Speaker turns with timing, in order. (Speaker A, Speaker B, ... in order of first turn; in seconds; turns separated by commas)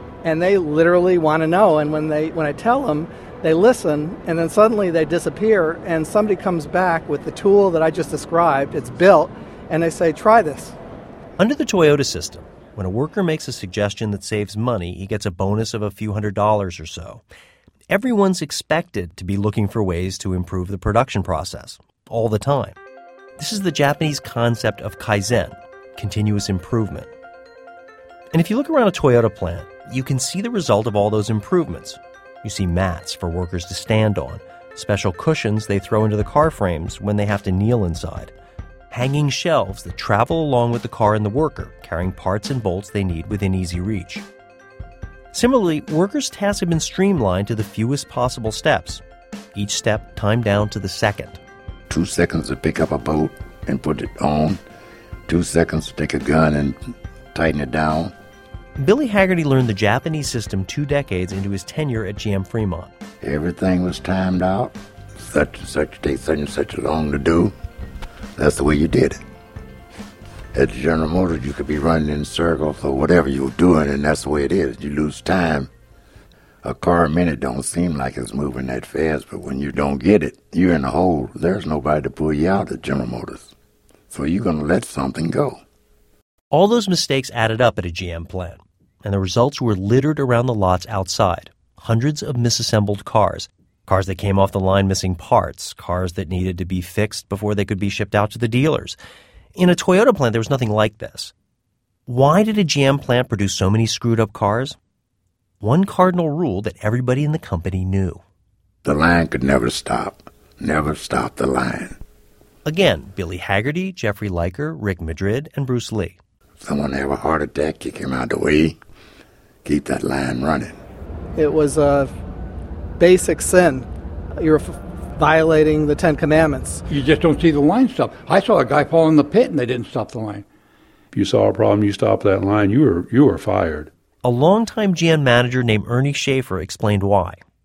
Speaker A: 0.2-10.8, Speaker B: 11.4-17.2, Speaker B: 17.9-22.8, Speaker B: 23.4-27.1, Speaker B: 28.3-38.3, Speaker B: 38.9-44.2, Speaker B: 45.3-49.0, Speaker B: 49.5-51.4, Speaker C: 51.9-54.6, Speaker C: 55.3-56.8, Speaker C: 57.3-58.1, Speaker B: 58.8-62.9, Speaker C: 63.2-67.5, Speaker C: 68.4-69.2, Speaker C: 70.5-75.7, Speaker C: 76.6-83.5, Speaker C: 84.1-85.6, Speaker B: 86.5-99.0, Speaker B: 99.5-101.3, Speaker B: 102.1-104.8, Speaker B: 105.6-108.2, Speaker C: 108.8-112.0, Speaker B: 112.6-116.2, Speaker C: 116.6-118.8, Speaker C: 119.6-120.8, Speaker A: 121.4-122.1, Speaker A: 123.0-123.9, Speaker A: 124.4-126.9, Speaker D: 126.9-130.4, Speaker E: 131.1-133.9, Speaker B: 134.2-137.4